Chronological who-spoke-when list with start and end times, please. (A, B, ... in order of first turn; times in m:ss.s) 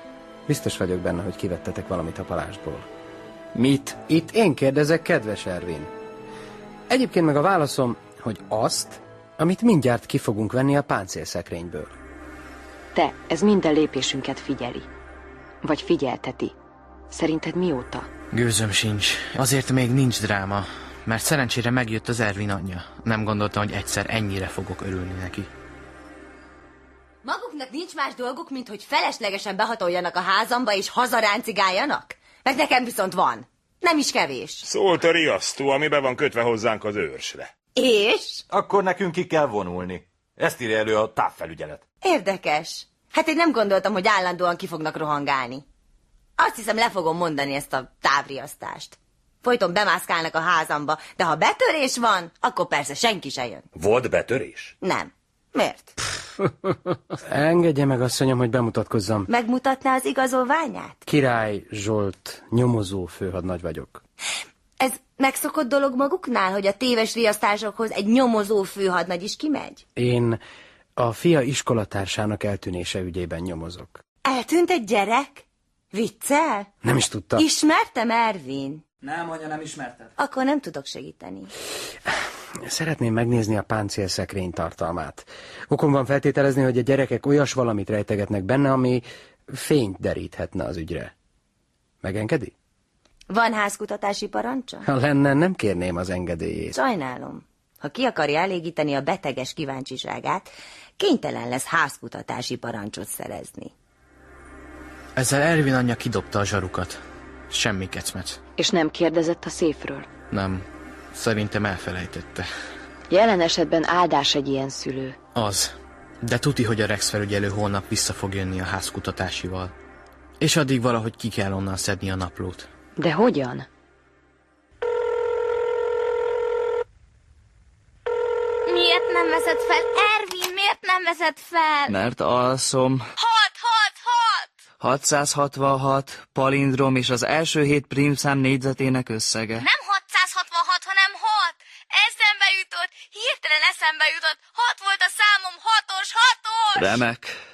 0:00.5-0:02.9 A
0:03.6-0:05.9 A
0:06.9-0:12.0 A
0:12.9-0:14.9 B
0:15.6-0:16.5 B
0:17.1-0:18.1 B
0:18.3-0:25.5 C
0:27.2-0:34.6 D
0:34.6-0:37.5 E
0:37.8-0:38.4 D
0:38.5-0:41.8 F
0:42.0-0:45.6 D
0:46.4-0:53.6 D
0:53.8-0:54.7 F
0:54.8-0:55.9 D
0:57.3-0:59.3 A
0:59.3-1:01.0 D
1:01.1-1:04.0 A
1:04.8-1:09.8 D
1:10.0-1:10.4 A
1:11.0-1:14.0 A
1:14.2-1:16.7 D
1:16.8-1:17.4 A
1:17.4-1:18.8 D
1:19.0-1:20.1 G
1:20.2-1:21.5 D
1:22.7-1:31.1 A
1:32.0-1:32.5 A
1:33.3-1:34.9 D
1:34.8-1:36.7 A
1:36.7-1:43.7 D
1:45.2-1:47.0 C
1:47.5-1:48.4 C
1:48.6-1:50.1 B
1:50.3-1:52.5 C
1:53.1-1:55.2 B
1:55.4-1:59.7 C
2:00.4-2:02.7 C
2:03.0-2:03.7 B
2:08.7-2:11.9 H
2:11.9-2:13.0 G
2:13.2-2:14.5 H
2:14.8-2:19.7 G
2:19.6-2:27.0 H
2:26.8-2:27.4 G